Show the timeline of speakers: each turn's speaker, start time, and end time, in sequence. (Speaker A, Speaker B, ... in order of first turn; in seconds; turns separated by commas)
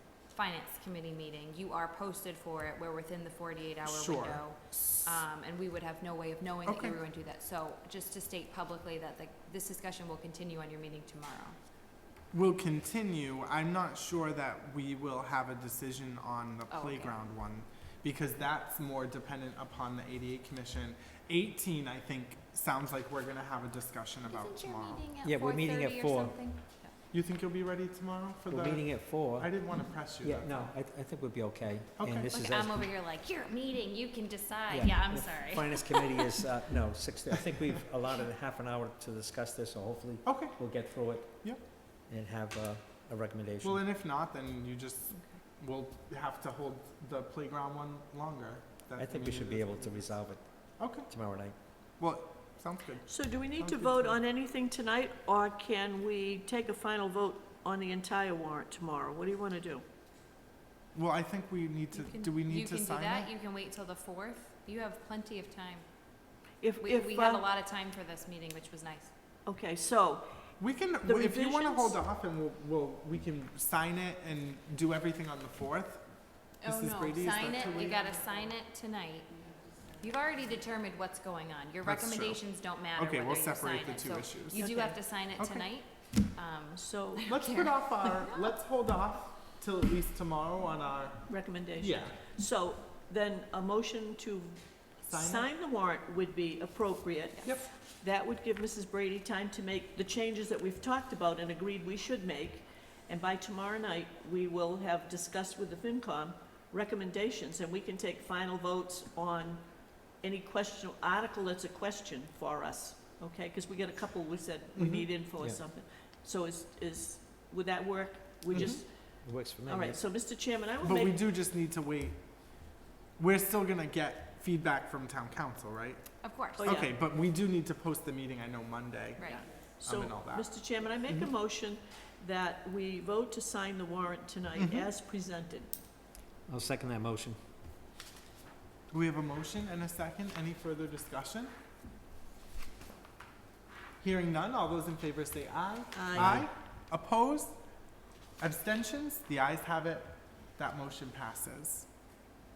Speaker A: 0.3-11.6, Speaker B: 3.9-5.2, Speaker B: 6.7-7.0, Speaker B: 12.3-25.1, Speaker A: 16.7-17.2, Speaker A: 24.2-26.9, Speaker C: 25.2-26.4, Speaker B: 27.1-30.7, Speaker C: 28.5-32.9, Speaker B: 32.0-32.3, Speaker A: 32.3-36.3, Speaker C: 34.7-43.8, Speaker B: 40.2-40.6, Speaker B: 43.6-50.2, Speaker A: 45.1-45.4, Speaker C: 49.0-51.6, Speaker B: 50.8-51.1, Speaker B: 52.0-54.2, Speaker D: 53.1-59.9, Speaker B: 60.9-63.3, Speaker A: 61.9-65.8, Speaker D: 66.6-67.5, Speaker A: 66.8-69.1, Speaker D: 69.5-70.3, Speaker B: 70.6-76.0, Speaker D: 71.0-72.0, Speaker B: 76.6-78.0, Speaker A: 76.6-79.3, Speaker A: 80.0-88.5, Speaker B: 81.8-82.4, Speaker B: 83.0-84.7, Speaker D: 84.6-85.0, Speaker B: 85.3-85.7, Speaker D: 86.8-87.3, Speaker B: 87.2-92.3, Speaker D: 91.3-109.6, Speaker B: 95.1-95.5, Speaker D: 110.2-118.9, Speaker B: 114.8-115.1, Speaker B: 118.5-118.8, Speaker C: 118.5-120.0, Speaker D: 119.7-121.2, Speaker B: 120.8-122.2, Speaker B: 123.2-130.5, Speaker A: 126.2-126.8, Speaker D: 126.6-127.0, Speaker A: 129.2-129.4, Speaker D: 129.2-135.7, Speaker B: 134.6-134.9, Speaker C: 136.5-137.4, Speaker B: 138.9-141.5, Speaker B: 144.0-147.6, Speaker D: 145.9-146.4, Speaker C: 146.1-146.5, Speaker B: 148.4-151.9